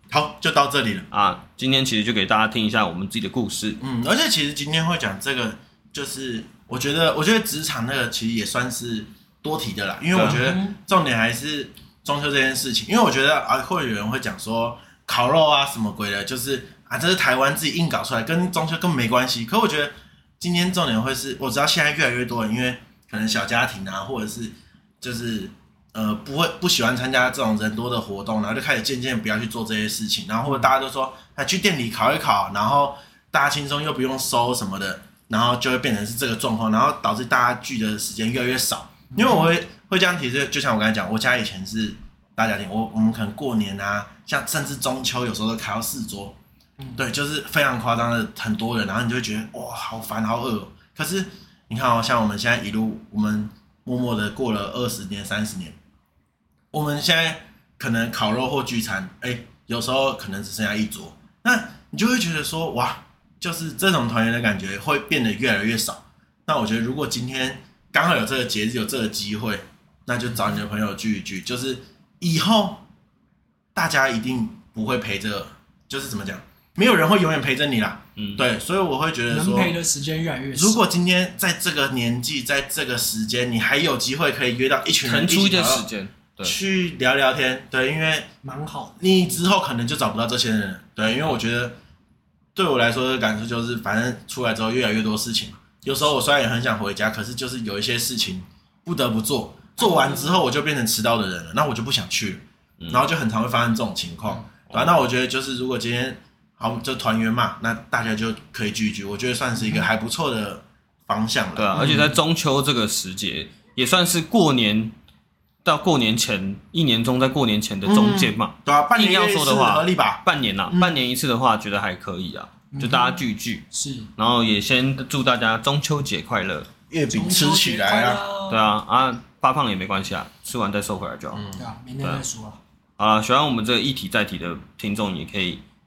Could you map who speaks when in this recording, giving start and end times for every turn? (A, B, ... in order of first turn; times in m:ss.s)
0:00.1-0:01.1 A
0:01.1-0:03.8 B
0:03.8-0:46.4 A
0:10.1-0:10.5 B
0:10.2-0:10.7 C
0:39.1-0:39.5 C
0:47.0-0:55.8 A
0:56.7-1:12.8 A
1:13.7-1:19.8 A
1:18.2-1:18.4 B
1:19.3-1:20.8 C
1:20.5-1:25.8 A
1:25.0-1:26.5 B
1:26.4-1:28.3 A
1:28.4-1:29.1 C
1:29.0-1:31.8 A
1:32.5-1:52.2 A
1:39.8-1:40.4 C
1:44.7-1:45.0 B
1:49.6-1:49.8 C
1:51.6-1:54.9 B
1:51.8-1:52.2 C
1:55.6-2:03.6 B
1:57.8-2:01.0 A
2:02.7-2:04.1 C
2:04.2-2:06.7 B
2:06.9-2:08.2 A
2:07.1-2:08.7 C
2:08.5-2:11.4 B
2:11.3-2:11.7 A
2:11.6-2:12.6 C
2:13.0-2:15.6 B